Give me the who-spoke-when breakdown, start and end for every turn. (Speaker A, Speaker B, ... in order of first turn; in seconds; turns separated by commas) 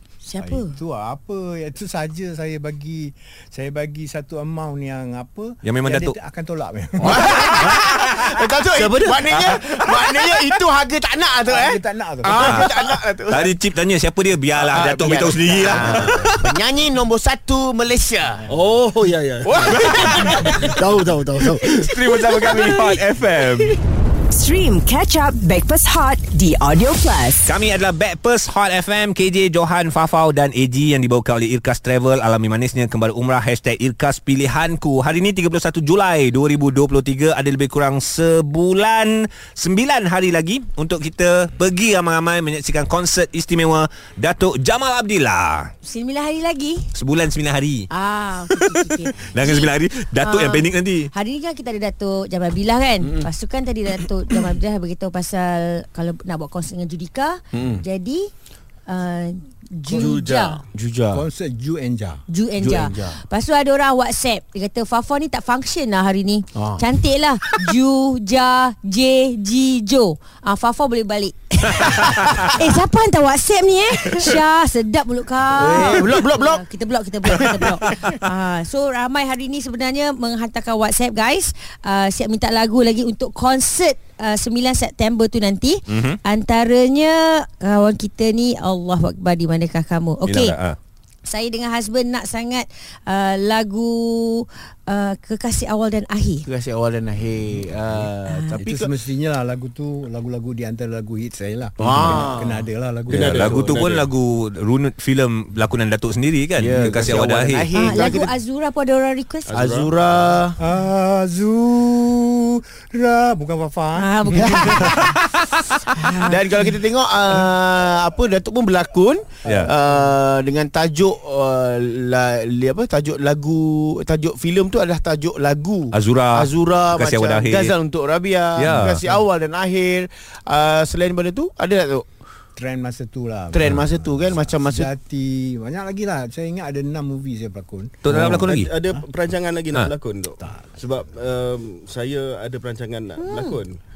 Speaker A: 0.2-0.8, Speaker B: 0.4-7.8, Speaker C: 5.6-6.1, Speaker D: 7.0-13.5, Speaker C: 7.2-8.3, Speaker E: 8.8-9.5, Speaker B: 11.4-12.6, Speaker C: 12.4-12.7, Speaker C: 13.3-16.5, Speaker D: 14.5-18.5, Speaker E: 18.5-21.9, Speaker C: 19.7-20.8, Speaker C: 21.6-23.8, Speaker E: 22.4-22.7, Speaker F: 24.3-27.5, Speaker C: 27.4-45.7, Speaker A: 45.8-46.9, Speaker C: 46.9-47.9, Speaker A: 47.9-58.3, Speaker C: 49.1-51.1, Speaker D: 57.5-57.8, Speaker A: 58.9-60.6, Speaker B: 59.9-60.2, Speaker E: 59.9-60.6, Speaker D: 60.7-61.2, Speaker B: 61.1-62.2, Speaker A: 62.3-90.5, Speaker D: 62.6-63.2, Speaker D: 66.5-66.8, Speaker D: 75.6-76.6, Speaker C: 85.9-86.2, Speaker C: 90.2-90.8, Speaker A: 91.2-96.5, Speaker D: 96.5-98.9, Speaker A: 98.2-98.6, Speaker B: 98.5-103.6, Speaker D: 101.8-102.7, Speaker E: 103.1-104.1, Speaker C: 103.1-107.7, Speaker D: 106.6-108.3, Speaker A: 107.8-109.5, Speaker E: 109.5-109.9, Speaker D: 109.5-110.6, Speaker B: 110.6-115.1, Speaker A: 114.0-115.0, Speaker D: 114.5-115.0, Speaker A: 115.9-116.3, Speaker D: 116.0-132.1, Speaker B: 119.4-119.9, Speaker C: 125.9-127.7, Speaker C: 128.6-129.0, Speaker B: 132.6-139.0, Speaker D: 133.5-134.9, Speaker C: 138.0-138.7, Speaker E: 138.1-143.8, Speaker B: 140.4-140.7, Speaker A: 143.2-143.6